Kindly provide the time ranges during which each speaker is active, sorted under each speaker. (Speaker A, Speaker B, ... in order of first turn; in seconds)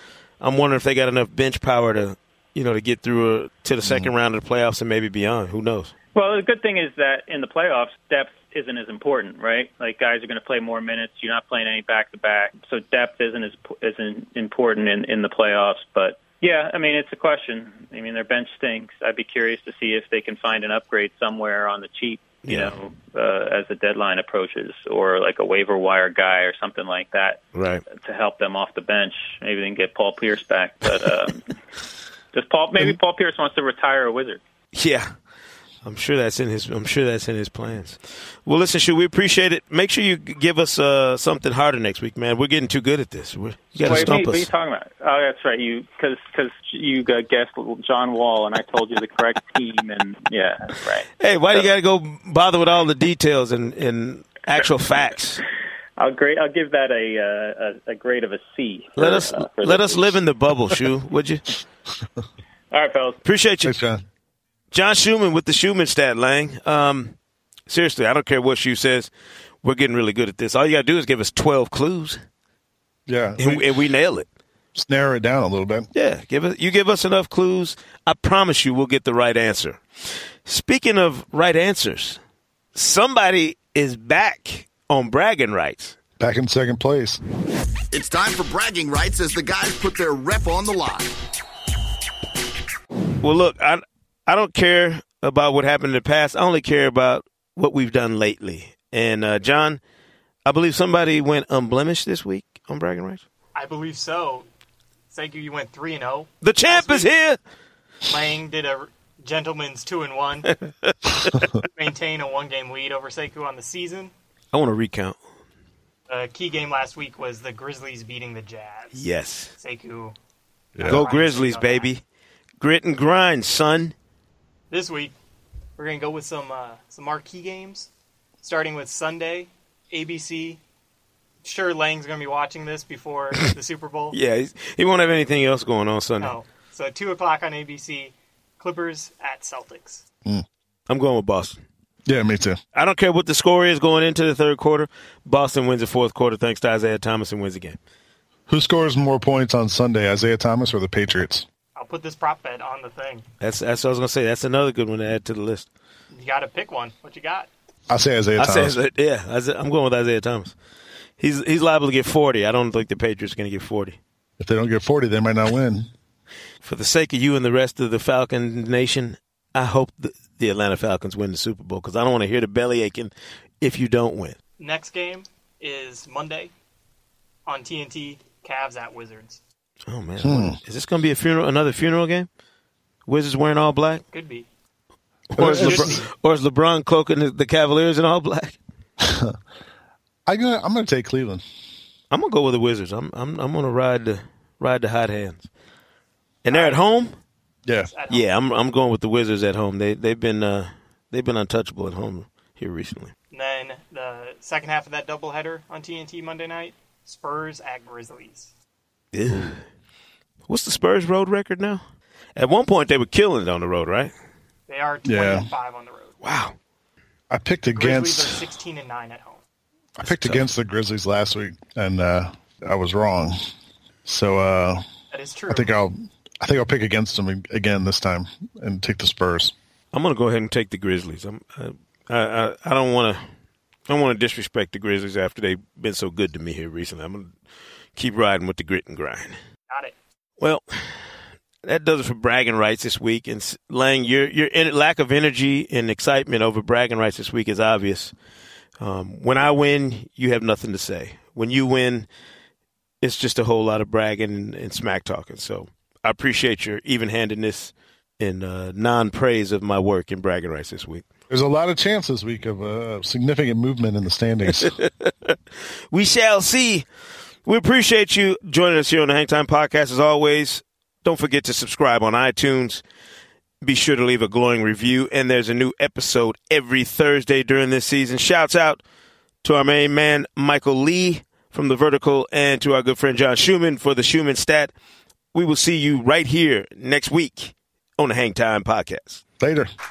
Speaker A: 0.4-5.9, 22.4-22.7, 27.5-27.8, 34.7-35.1, 35.8-44.5, 51.2-55.4, 59.0-61.4, 63.2-63.8, 64.7-67.1, 67.7-69.1, 69.6-72.2, 73.4-74.3, 75.9-82.2, 82.7-86.0, 93.2-99.8, 100.5-103.2, 106.4-107.4, 110.5-111.5, 114.5-115.2, 118.9-119.5, 120.8-122.0, 122.6-123.9, 134.1-136.3, 140.9-141.6, 142.7-147.8, 153.4-155.7, 158.4-160.5, 161.2-164.0, 166.6-174.4, 179.9-182.3, 183.1-184.0, 185.3-188.6, 192.1-195.5, 196.4-197.2, 198.1-203.1, 209.1-209.6, 210.5-211.8, 212.3-214.1, 216.2-216.5, 220.0-220.5, 229.9-233.3, 233.9-237.3, 237.9-239.4, 240.4-248.1, 248.8-252.1, 253.0-261.0, 264.6-265.4, 265.9-266.8, 267.4-272.8, 273.6-278.8, 279.4-284.7, 285.3-289.2
Speaker B: 3.8-4.1, 63.6-64.0, 73.1-73.7, 74.7-75.9, 86.2-87.2, 120.8-121.0, 142.1-142.6, 148.5-151.4, 157.9-158.8, 164.4-165.9, 180.2-180.6, 185.4-185.9, 189.0-189.4, 190.2-191.4, 215.1-215.5, 217.3-218.4, 220.0-223.4, 224.0-224.8, 225.5-229.5, 261.3-264.7, 289.4-289.7
Speaker C: 6.1-31.4, 32.3-34.4, 43.8-51.7, 56.0-60.2, 62.7-63.2
Speaker D: 87.9-91.2
Speaker E: 103.5-104.5, 105.1-107.1, 108.0-110.5, 111.6-114.1, 116.1-119.0, 119.6-120.2, 120.8-121.9, 124.7-125.1, 125.8-127.9, 128.4-130.6, 131.4-134.2, 136.2-140.0, 151.8-153.2, 156.1-157.5, 174.6-176.5, 177.4-179.4, 184.1-184.5, 185.4-186.1, 196.5-196.8, 197.9-198.3, 203.3-208.5, 214.7-216.2, 217.7-219.4, 225.1-225.7, 239.7-239.9